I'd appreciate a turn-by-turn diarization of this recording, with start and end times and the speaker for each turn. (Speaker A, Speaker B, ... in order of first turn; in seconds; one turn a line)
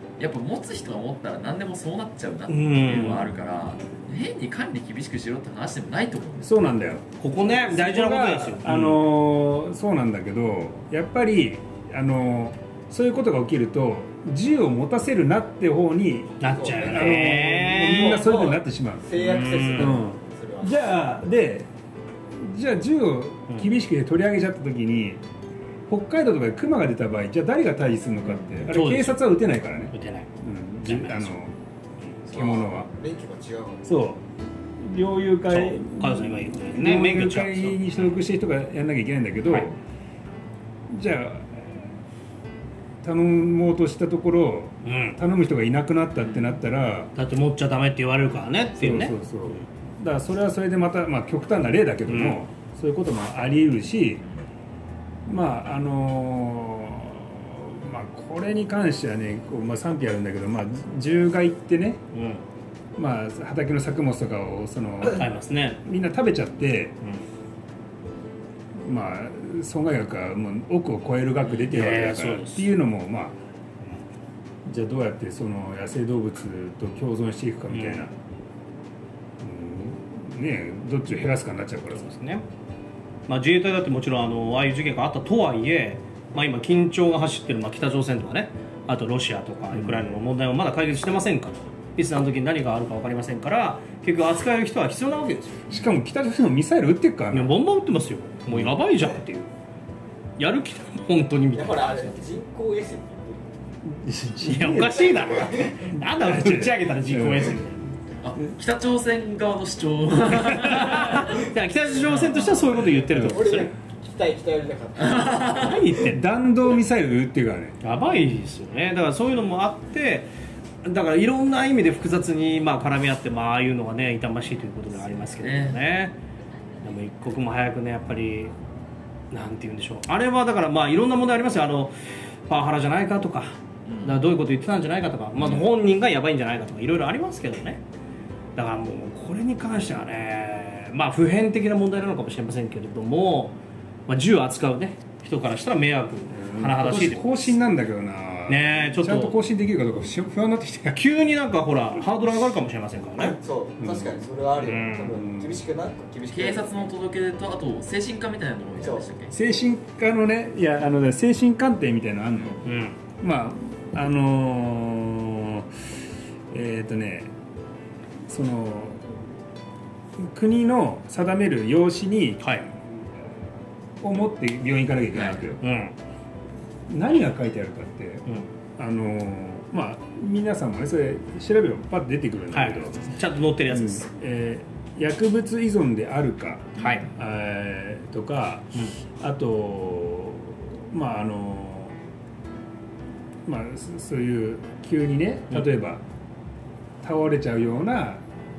Speaker A: 0.2-6.5
Speaker B: 2.5-3.2
Speaker C: 6.4-21.7
Speaker B: 7.2-9.0
Speaker B: 16.4-18.5
Speaker D: 16.4-20.9
Speaker B: 19.2-20.0
Speaker C: 22.3-25.2
Speaker C: 25.9-31.5
Speaker B: 28.7-29.4
Speaker B: 29.9-30.3
Speaker B: 30.8-31.3
Speaker C: 32.3-32.9
Speaker D: 32.3-33.9
Speaker C: 33.8-34.2
Speaker C: 34.8-39.7
Speaker B: 35.5-38.1
Speaker C: 40.9-41.8
Speaker C: 43.0-47.1
Speaker B: 44.8-45.2
Speaker B: 47.1-49.1
Speaker C: 48.8-54.2
Speaker B: 52.1-52.4
Speaker C: 55.2-62.0
Speaker B: 62.1-62.4
Speaker C: 63.0-65.3
Speaker B: 65.1-65.8
Speaker C: 65.8-67.0
Speaker B: 67.0-67.3
Speaker C: 68.8-73.4
Speaker B: 71.4-72.7
Speaker C: 74.6-78.1
Speaker B: 77.7-78.1
Speaker C: 79.4-82.1
Speaker B: 81.9-82.4
Speaker B: 83.3-95.8
Speaker C: 89.7-90.2
Speaker C: 95.7-97.6
Speaker B: 97.3-99.5
Speaker C: 98.5-98.7
Speaker B: 100.4-102.4
Speaker D: 101.5-103.6
Speaker C: 103.8-105.2
Speaker B: 104.4-107.8
Speaker C: 105.9-107.6
Speaker A: 108.2-111.5
Speaker C: 110.3-110.8
Speaker B: 110.5-113.7
Speaker A: 112.0-112.8
Speaker C: 113.0-113.3
Speaker D: 113.1-115.8
Speaker A: 115.0-115.8
Speaker B: 115.5-116.2
Speaker C: 115.9-117.8
Speaker B: 117.8-120.3
Speaker B: 120.8-126.2
Speaker A: 125.4-125.8
Speaker B: 126.8-128.5
Speaker B: 129.3-131.9
Speaker B: 132.5-137.8
Speaker A: 133.8-134.2
Speaker B: 138.6-143.6
Speaker B: 144.1-147.5
Speaker C: 146.3-151.0
Speaker B: 148.5-149.3
Speaker B: 150.9-153.4
Speaker D: 153.2-156.9
Speaker C: 153.8-155.6
Speaker B: 154.6-155.2
Speaker A: 156.3-159.3
Speaker D: 158.8-159.1
Speaker C: 159.3-162.6
Speaker B: 162.6-163.0
Speaker C: 163.2-165.7
Speaker C: 166.5-167.3
Speaker C: 168.3-169.0
Speaker C: 170.2-172.5
Speaker B: 172.4-172.7
Speaker C: 174.0-175.6
Speaker A: 175.1-175.4
Speaker B: 175.6-175.9
Speaker C: 176.9-178.2
Speaker C: 178.8-191.9
Speaker B: 182.5-184.1
Speaker B: 186.8-187.1
Speaker C: 193.4-196.0
Speaker C: 197.0-198.2